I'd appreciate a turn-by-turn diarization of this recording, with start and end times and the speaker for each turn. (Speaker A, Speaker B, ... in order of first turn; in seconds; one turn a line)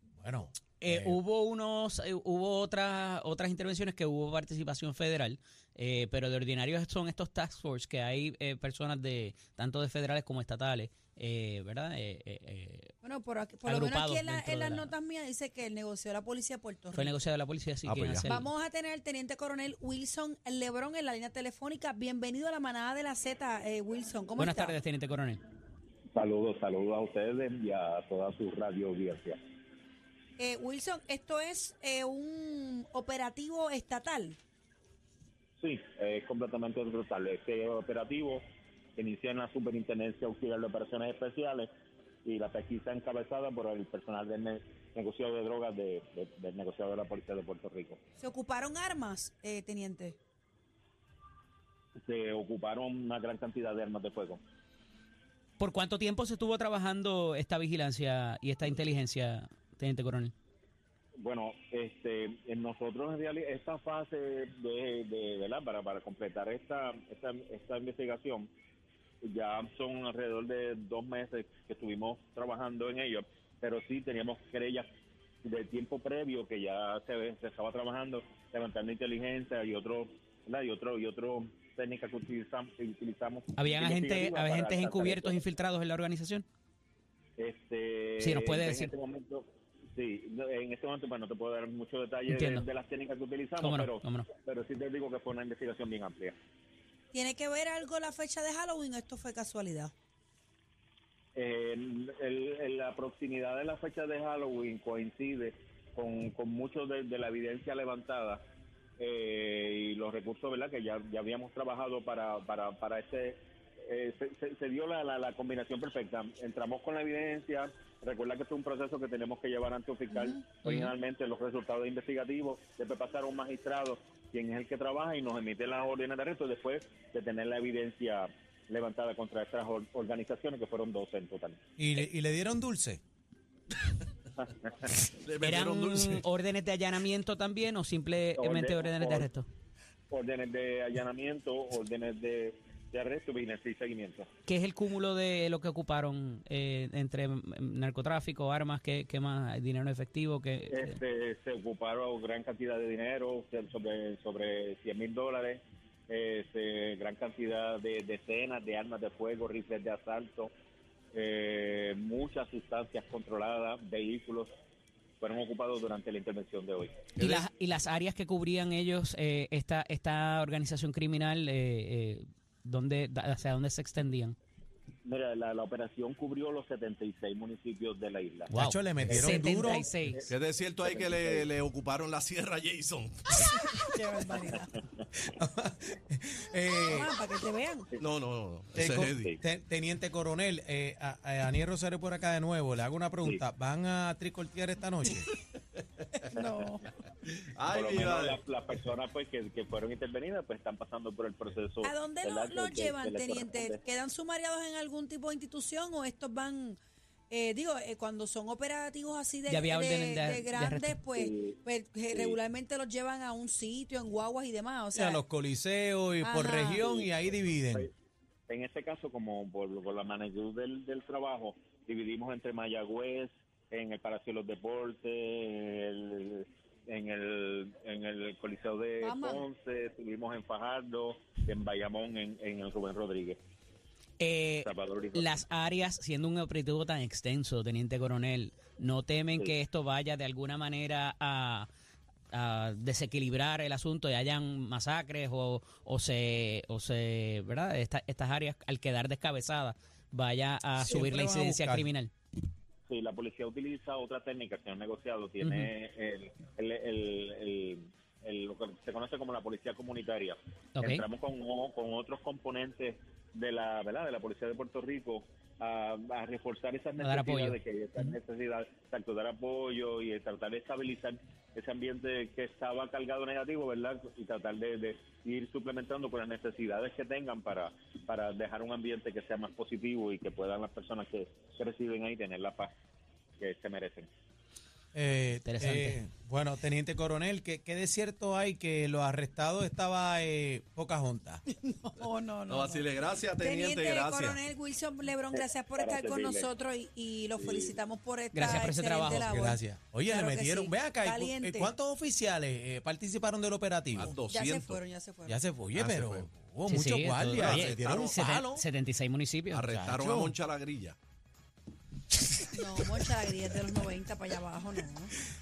Speaker A: 0.2-1.2
Speaker B: 0.8-12.9
Speaker C: 13.0-17.1
Speaker B: 13.6-14.9
Speaker B: 16.9-18.5
Speaker D: 17.8-18.3
Speaker C: 18.2-24.8
Speaker B: 24.4-25.4
Speaker E: 26.1-29.4
Speaker C: 30.4-34.4
Speaker E: 35.6-38.4
Speaker E: 39.0-41.7
Speaker E: 42.2-48.0
Speaker C: 48.2-50.2
Speaker E: 52.0-54.4
Speaker B: 55.6-60.3
Speaker E: 61.2-68.5
Speaker E: 69.2-74.8
Speaker E: 75.4-85.4
Speaker B: 83.5-86.4
Speaker E: 87.4-96.3
Speaker B: 88.2-88.9
Speaker B: 92.3-92.7
Speaker B: 93.6-94.3
Speaker C: 97.1-99.9
Speaker E: 101.3-108.4
Speaker E: 109.0-131.6
Speaker C: 120.1-120.4
Speaker B: 120.6-120.9
Speaker A: 131.8-133.0
Speaker E: 134.4-134.9
Speaker D: 135.2-136.2
Speaker B: 135.4-139.5
Speaker E: 138.4-139.3
Speaker E: 140.1-144.3
Speaker B: 144.4-150.9
Speaker E: 150.7-160.5
Speaker E: 161.1-164.5
Speaker E: 165.2-167.0
Speaker D: 167.2-167.5
Speaker B: 167.2-174.3
Speaker E: 175.0-178.5
Speaker B: 178.5-180.3
Speaker A: 178.5-179.9
Speaker E: 179.1-180.3
Speaker D: 180.3-183.7
Speaker E: 180.8-181.4
Speaker C: 183.7-184.7
Speaker A: 185.2-187.1
Speaker C: 186.8-187.9
Speaker D: 188.0-189.3
Speaker A: 188.7-195.3
Speaker C: 196.3-196.9
Speaker D: 197.2-198.4
Speaker E: 197.7-203.8
Speaker C: 201.8-206.8
Speaker C: 207.3-215.2
Speaker B: 209.5-211.0
Speaker E: 211.1-211.6
Speaker E: 212.1-212.4
Speaker A: 214.9-217.9
Speaker C: 216.2-216.8
Speaker E: 216.8-217.1
Speaker E: 218.5-233.4
Speaker C: 229.0-229.4
Speaker B: 234.2-241.7
Speaker E: 234.6-235.4
Speaker B: 242.3-252.1
Speaker A: 250.8-251.9
Speaker E: 252.9-282.7
Speaker B: 255.4-255.7
Speaker B: 260.8-261.0
Speaker B: 267.0-267.6
Speaker E: 283.4-284.1
Speaker A: 284.9-291.4
Speaker B: 285.4-286.0
Speaker C: 291.6-292.8
Speaker D: 292.5-294.4
Speaker C: 293.4-301.7
Speaker E: 295.3-296.5
Speaker E: 297.4-297.8
Speaker B: 298.3-299.3
Speaker A: 299.1-304.2
Speaker D: 303.9-304.8
Speaker C: 304.3-305.4
Speaker A: 305.3-308.6
Speaker D: 305.7-306.3
Speaker B: 306.7-309.7
Speaker D: 307.3-308.2
Speaker D: 309.5-310.9
Speaker A: 309.7-310.3
Speaker C: 312.5-315.1